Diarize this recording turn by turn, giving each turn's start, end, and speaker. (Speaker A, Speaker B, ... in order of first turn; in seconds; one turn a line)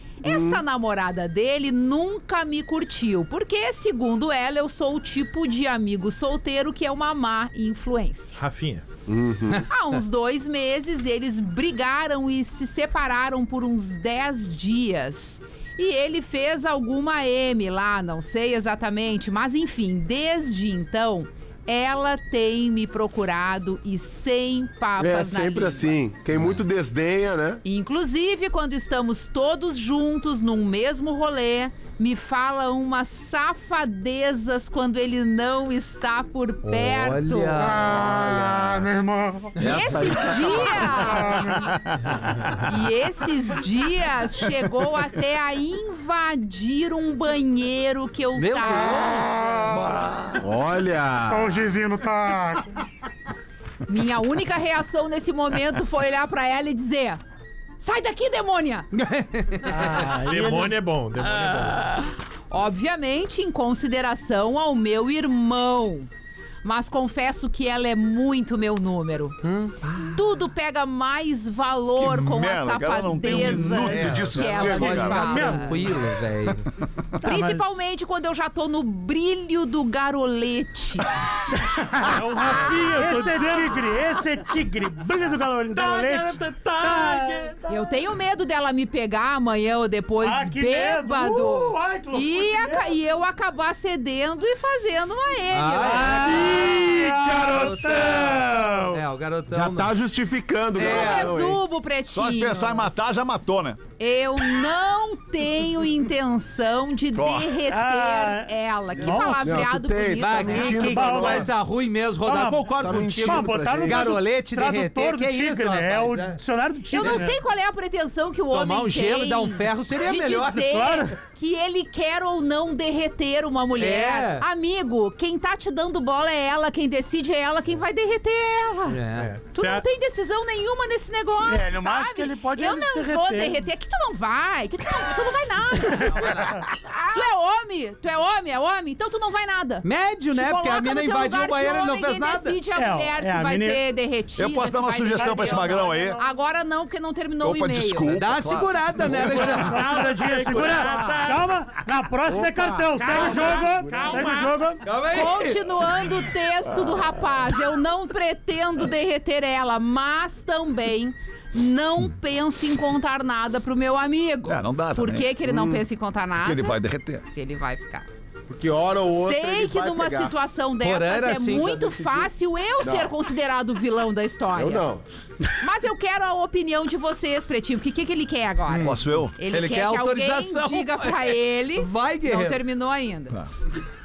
Speaker A: 0.2-8.4
Speaker B: 0.2-0.6
Speaker C: 8.4-8.8
Speaker B: 9.1-9.7
Speaker A: 9.7-26.0
Speaker B: 25.0-27.6
Speaker A: 27.6-37.8
Speaker D: 36.6-38.7
Speaker E: 38.7-39.5
Speaker F: 39.6-42.5
Speaker A: 39.6-41.5
Speaker E: 41.3-41.5
Speaker A: 42.6-49.7
Speaker D: 48.4-49.4
Speaker F: 49.7-50.5
Speaker B: 50.4-51.6
Speaker E: 51.2-52.7
Speaker A: 53.9-57.2
Speaker A: 57.8-58.9
Speaker D: 58.9-60.1
Speaker E: 59.6-60.8
Speaker C: 59.9-61.9
Speaker A: 62.5-66.1
Speaker A: 66.6-69.4
Speaker D: 69.4-69.7
Speaker A: 70.0-75.8
Speaker F: 71.9-75.3
Speaker D: 73.8-76.7
Speaker E: 75.1-75.8
Speaker E: 77.2-77.8
Speaker A: 77.2-81.2
Speaker E: 81.9-87.6
Speaker C: 82.0-83.8
Speaker C: 85.7-87.7
Speaker A: 87.7-96.4
Speaker E: 90.2-93.0
Speaker D: 95.5-100.0
Speaker E: 95.7-99.0
Speaker B: 99.5-101.6
Speaker D: 100.8-101.4
Speaker A: 100.8-103.4
Speaker F: 102.1-103.8
Speaker A: 104.0-111.1
Speaker F: 107.1-107.6
Speaker E: 107.7-109.7
Speaker B: 109.4-111.5
Speaker D: 110.2-116.4
Speaker E: 110.8-111.6
Speaker E: 112.2-117.4
Speaker B: 112.8-114.2
Speaker A: 116.9-129.0
Speaker D: 117.0-117.3
Speaker D: 118.5-120.9
Speaker E: 120.7-121.1
Speaker D: 123.8-124.5
Speaker D: 128.9-129.3
Speaker C: 129.2-129.8
Speaker A: 129.5-136.4
Speaker E: 131.4-133.6
Speaker D: 136.2-136.6
Speaker A: 137.1-148.2
Speaker D: 139.8-142.6
Speaker E: 142.8-143.8
Speaker F: 144.4-146.2
Speaker E: 145.2-146.2
Speaker F: 147.4-149.4
Speaker D: 148.1-149.9
Speaker E: 149.0-154.8
Speaker C: 149.2-151.5
Speaker B: 152.3-154.2
Speaker C: 153.0-154.7
Speaker D: 154.8-155.7
Speaker A: 155.1-166.8
Speaker F: 164.4-165.3
Speaker B: 165.4-165.8
Speaker F: 166.4-167.2
Speaker A: 167.3-168.1
Speaker B: 168.5-170.3
Speaker A: 169.1-174.9
Speaker D: 170.8-171.7
Speaker B: 171.5-172.3
Speaker B: 172.8-173.1
Speaker B: 174.6-175.0
Speaker A: 175.6-183.4
Speaker D: 178.7-182.6
Speaker F: 178.8-179.4